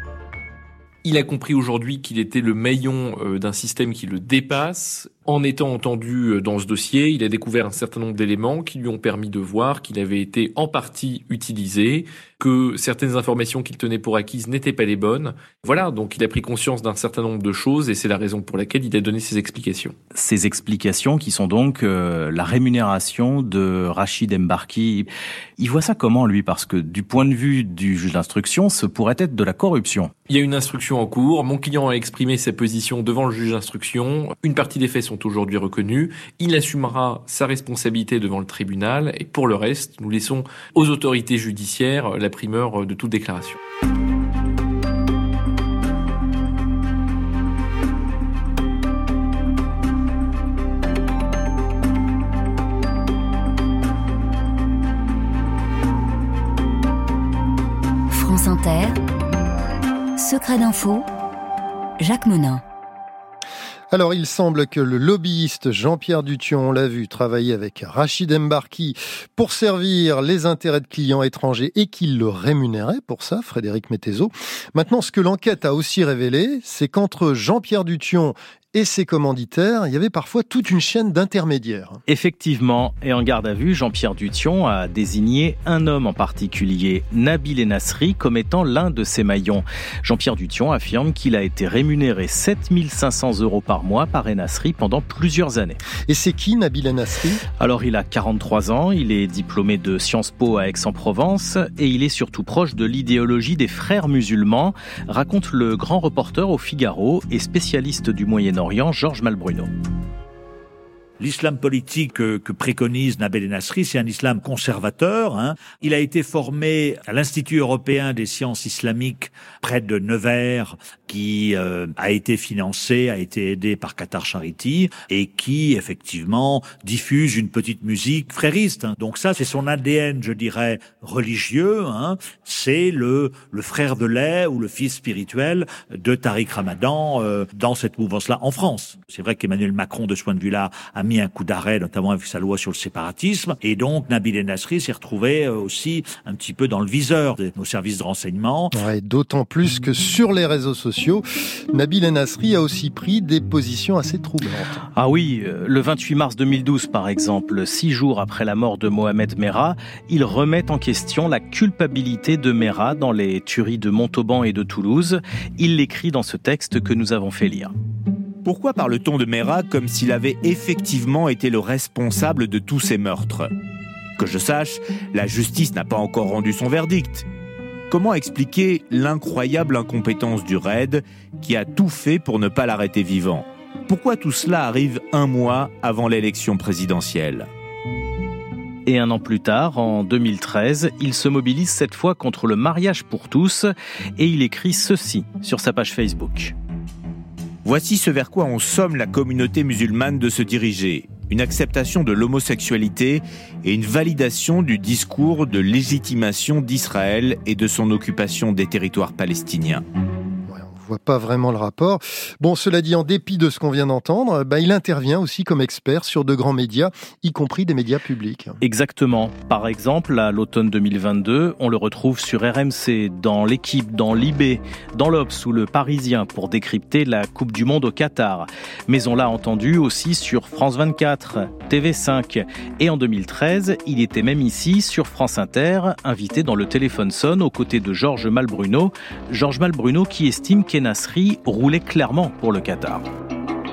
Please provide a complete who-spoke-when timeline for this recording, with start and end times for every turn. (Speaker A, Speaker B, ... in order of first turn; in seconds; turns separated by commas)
Speaker A: 1.0-19.9, Speaker B: 20.1-25.1, Speaker B: 25.6-30.1, Speaker A: 30.3-43.6, Speaker C: 58.1-59.0, Speaker C: 60.2-61.1, Speaker C: 62.0-62.6, Speaker D: 63.9-82.0, Speaker B: 82.1-95.8, Speaker D: 96.1-97.4, Speaker B: 97.6-109.7, Speaker E: 111.2-148.7, Speaker D: 148.7-154.8, Speaker B: 155.0-167.7, Speaker F: 168.4-173.5, Speaker F: 174.2-177.3, Speaker F: 177.9-187.5, Speaker B: 188.9-196.6, Speaker F: 197.6-209.8, Speaker D: 210.5-218.6, Speaker B: 218.6-243.1